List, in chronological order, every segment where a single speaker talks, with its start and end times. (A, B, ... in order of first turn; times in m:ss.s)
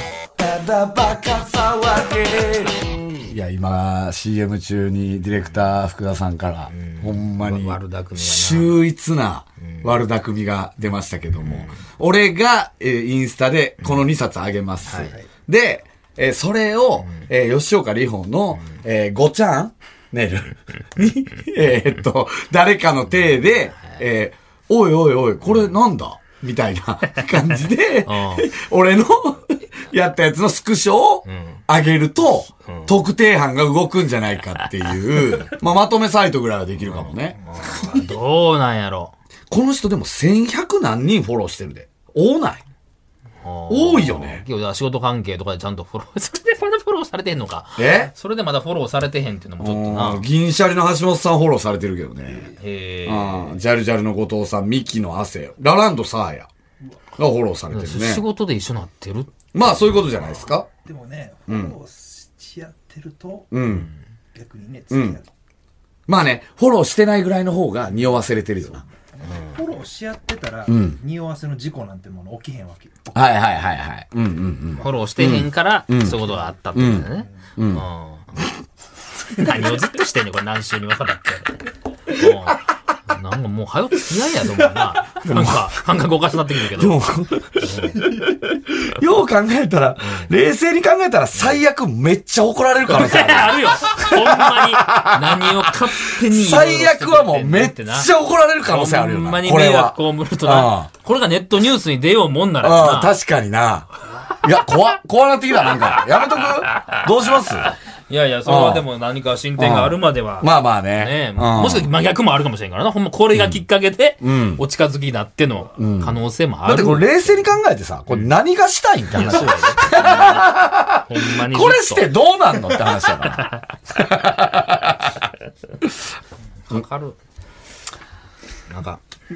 0:00.4-0:37.4 A
0:06.7-0:08.8 B
0:11.4-0:11.8 B
0:14.9-0:15.2 B
0:28.0-0:28.5 B
0:31.3-0:31.6 B
0:32.7-0:32.9 B
0:36.9-0:39.1 B
0:39.5-0:42.6 A
0:43.4-0:50.2 B
0:43.7-0:44.4 A
0:47.8-0:48.1 A
0:49.6-0:52.5 A
0:52.6-0:53.5 B
0:53.1-0:56.5 A
0:57.2-0:58.2 A
0:57.7-0:59.4 B
0:59.5-1:00.7 A
1:00.7-1:03.6 C
1:01.5-1:01.7 A
1:03.5-1:03.9 A
1:04.3-1:05.3 C
1:04.9-1:05.2 A
1:06.1-1:08.8 A
1:08.7-1:13.2 C
1:10.7-1:11.0 A
1:13.1-1:16.2 A
1:14.8-1:18.4 B
1:16.7-1:17.8 A
1:17.2-1:17.4 C
1:19.4-1:21.6 B
1:22.1-1:27.0 B
1:25.2-1:25.8 A
1:26.7-1:40.9 A
1:27.6-1:28.1 B
1:30.0-1:30.3 B
1:32.9-1:38.1 B
1:38.7-1:43.1 B
1:42.6-1:43.9 A
1:44.4-1:47.7 A
1:48.1-1:57.4 B
1:48.4-1:48.9 A
1:49.6-1:51.9 A
1:53.3-1:53.6 A
1:54.2-1:54.6 A
1:55.8-2:05.1 A
1:59.1-2:00.5 B
2:01.0-2:02.1 B
2:06.7-2:07.2 B
2:08.7-2:09.0 B